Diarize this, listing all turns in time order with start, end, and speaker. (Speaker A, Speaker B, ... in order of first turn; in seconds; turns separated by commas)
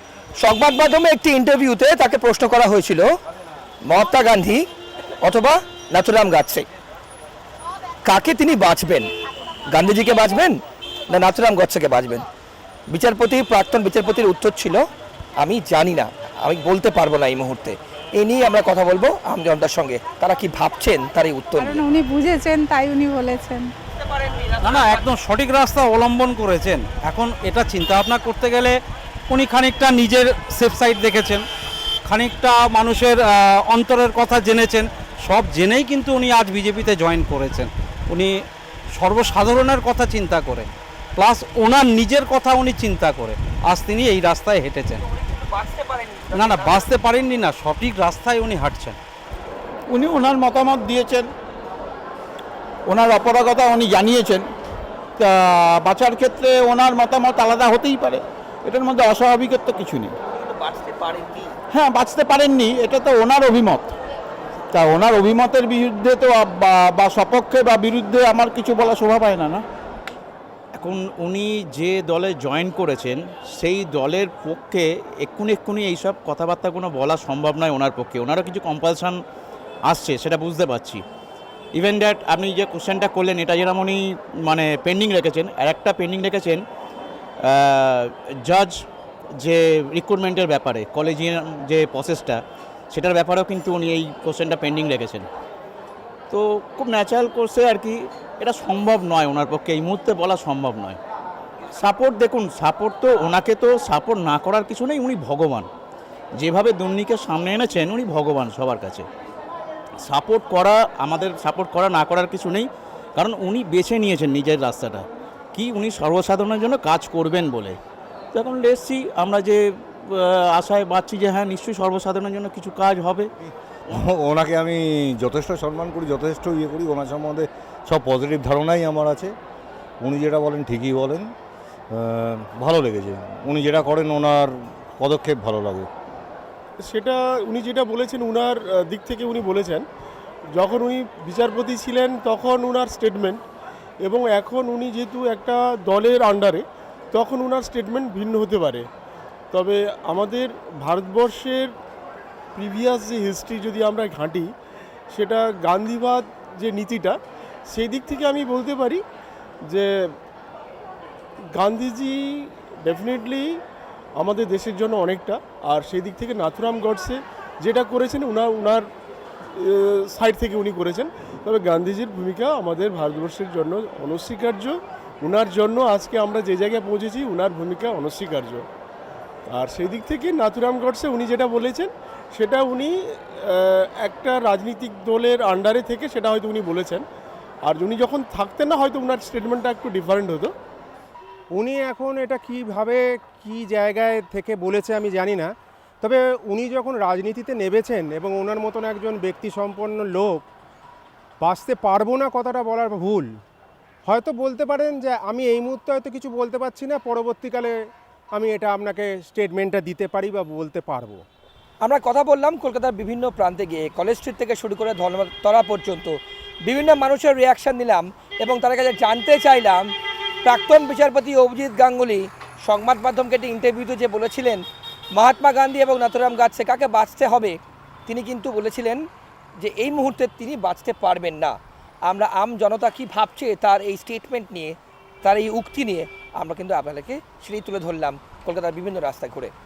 Speaker A: 0.4-3.1, Speaker A: 3.9-4.6, Speaker A: 5.2-6.7, Speaker A: 8.1-9.1, Speaker A: 9.7-10.6, Speaker A: 11.1-12.2, Speaker A: 12.9-14.8, Speaker A: 15.4-21.8, Speaker B: 21.6-23.7, Speaker C: 24.6-28.8, Speaker C: 29.3-31.4, Speaker C: 32.1-38.3, Speaker C: 39.0-45.0, Speaker A: 45.6-46.2, Speaker C: 46.3-49.0, Speaker D: 49.9-51.3, Speaker D: 52.9-54.5, Speaker D: 55.2-60.2, Speaker A: 60.5-61.4, Speaker D: 61.7-64.0, Speaker D: 64.7-69.7, Speaker E: 70.8-79.2, Speaker E: 79.9-81.0, Speaker E: 81.8-86.6, Speaker E: 87.5-88.8, Speaker E: 89.4-92.4, Speaker E: 92.9-95.3, Speaker E: 96.3-101.0, Speaker E: 101.8-105.7, Speaker E: 106.4-109.1, Speaker E: 110.0-117.8, Speaker E: 118.3-123.3, Speaker F: 123.9-129.3, Speaker F: 130.0-131.3, Speaker F: 131.9-135.9, Speaker G: 136.8-139.8, Speaker G: 140.5-143.4, Speaker G: 144.0-148.9, Speaker G: 149.5-151.7, Speaker G: 152.5-154.5, Speaker G: 155.1-157.2, Speaker G: 157.7-159.0, Speaker G: 159.7-160.1, Speaker G: 161.5-163.6, Speaker G: 164.2-168.8, Speaker G: 169.5-178.7, Speaker G: 179.5-187.0, Speaker G: 187.6-190.5, Speaker H: 191.5-200.4, Speaker H: 201.4-203.3, Speaker H: 204.1-207.8, Speaker H: 208.3-211.2, Speaker A: 211.8-216.1, Speaker A: 216.7-219.8, Speaker A: 220.4-224.6, Speaker A: 225.1-229.0, Speaker A: 229.6-231.5, Speaker A: 232.1-239.5